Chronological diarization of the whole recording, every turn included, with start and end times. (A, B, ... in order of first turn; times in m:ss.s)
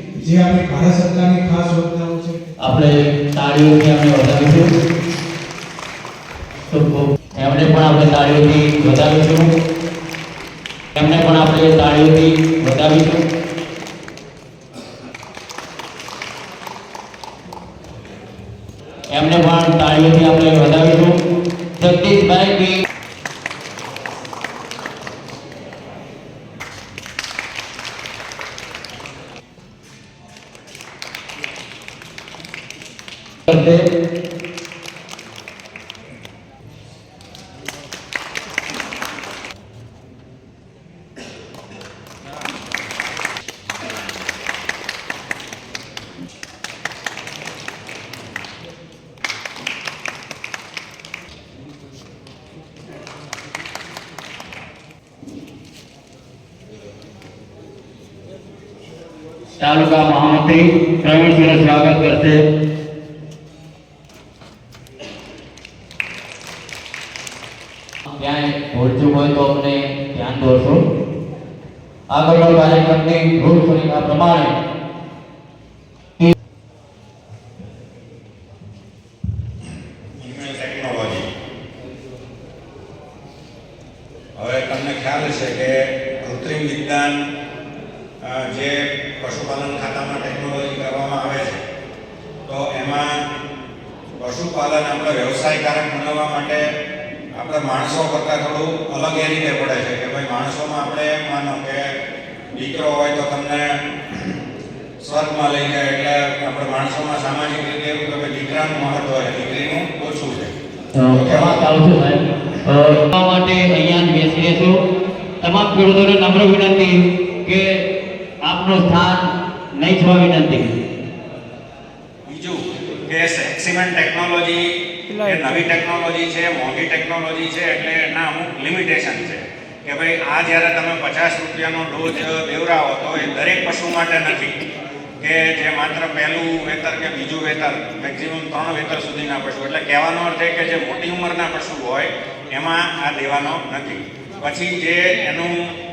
0:00.2-0:02.4 A
0:02.6-0:04.7 B
0:06.7-0:09.5 B
0:11.0-0:13.2 B
0:19.1-0:21.2 B
0:21.8-0:22.8 B
0:33.5-0:33.8 B
0:59.6-1:02.4 B
1:08.2-1:10.8 B
1:12.1-1:14.6 B
1:20.2-1:21.3 C
1:24.4-1:27.2 C
1:28.2-1:31.6 C
1:32.5-1:33.1 C
1:34.2-1:36.6 C
1:37.3-1:41.9 C
1:42.5-1:43.6 C
1:45.0-1:50.5 C
1:51.0-1:54.8 B
1:51.1-1:51.7 C
1:55.4-1:57.8 B
1:58.4-2:00.8 B
2:02.3-2:04.7 C
2:05.2-2:14.6 C
2:15.2-2:25.5 C